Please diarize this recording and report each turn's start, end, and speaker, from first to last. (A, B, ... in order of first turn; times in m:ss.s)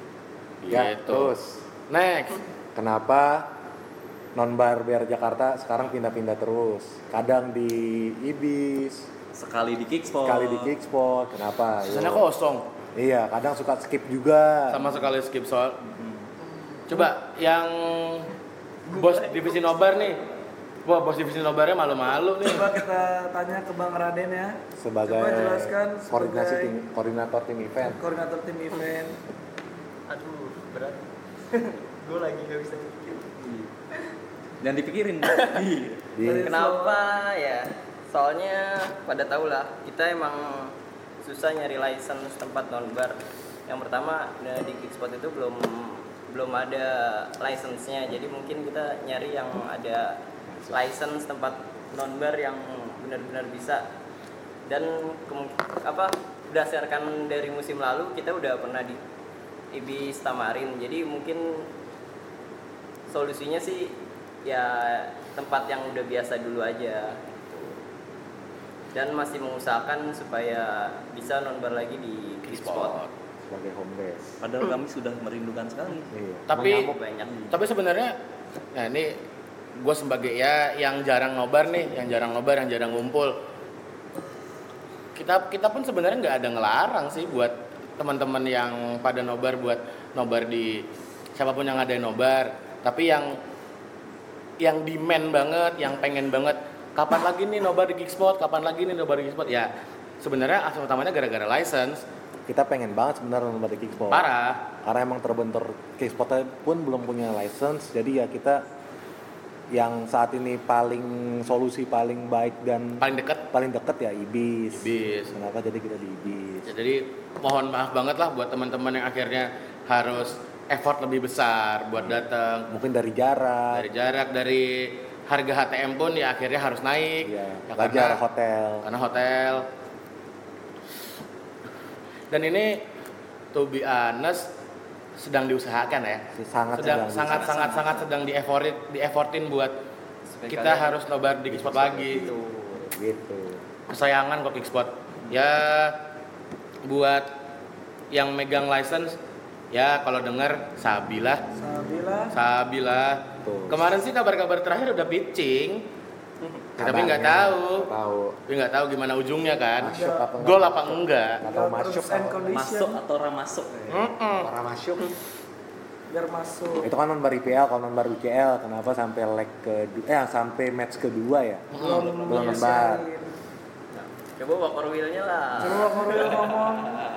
0:00.6-0:01.3 A
0:00.7-0:01.6 B
0:01.9-0:02.4 A
0:02.8-0:03.5 B
0:04.4-0:09.1 B
0:09.4-0:10.7 C
0:10.2-0:12.2 B
0:11.8-0:12.6 A
0:13.0-0:14.9 B
0:14.7-0:15.8 A
0:15.9-0:16.2 C
0:16.9-0:18.3 A
0:18.9-0:20.3 D
0:18.9-0:20.2 A
0:20.8-0:22.7 A
0:22.4-0:26.7 E
0:24.8-0:28.0 B
0:28.0-0:29.2 E
0:30.1-0:33.3 D
0:33.4-0:33.7 C
0:34.6-0:36.1 C
0:35.3-0:35.6 D
0:36.2-0:36.6 B
0:36.2-0:37.0 E
0:36.4-0:50.2 D
0:50.7-0:53.9 D
0:54.7-0:59.0 D
0:59.7-1:01.7 D
1:03.1-1:07.2 D
1:08.9-1:13.0 D
1:12.5-1:13.1 A
1:13.5-1:14.4 B
1:14.4-1:16.1 C
1:16.1-1:17.0 B
1:16.5-1:16.9 A
1:16.7-1:17.3 D
1:17.5-1:18.1 A
1:18.7-1:19.2 A
1:19.8-1:23.4 A
1:25.2-1:33.4 A
1:34.6-1:42.0 A
1:42.5-1:44.3 B
1:44.1-1:44.6 A
1:44.8-1:48.6 B
1:49.7-1:56.7 B
1:53.0-1:53.4 A
1:54.8-1:55.3 A
1:56.7-2:02.7 A
2:02.0-2:03.9 B
2:03.7-2:08.2 A
2:07.2-2:08.9 B
2:08.8-2:09.7 A
2:12.3-2:12.8 A
2:13.5-2:14.5 A
2:15.2-2:16.2 A
2:16.3-2:17.6 B
2:16.8-2:19.7 A
2:17.3-2:18.1 C
2:20.4-2:21.0 D
2:20.5-2:22.3 A
2:21.5-2:23.6 B
2:22.2-2:22.9 D
2:23.9-2:26.0 A
2:26.9-2:27.3 A
2:28.1-2:29.2 A
2:29.7-2:31.4 A
2:31.6-2:32.4 E
2:32.3-2:35.8 A
2:33.4-2:33.8 B
2:36.8-2:38.4 B
2:36.8-2:37.9 A
2:38.5-2:41.4 A
2:39.8-2:42.6 B
2:39.8-2:40.3 E
2:41.4-2:43.0 E
2:42.5-2:43.8 C
2:43.8-2:45.1 B
2:43.9-2:44.5 A
2:46.1-2:46.9 E
2:46.8-2:51.7 B
2:51.7-2:52.7 A
2:51.8-2:53.3 E
2:52.2-2:53.1 B
2:54.0-2:56.3 D
2:55.6-2:57.0 E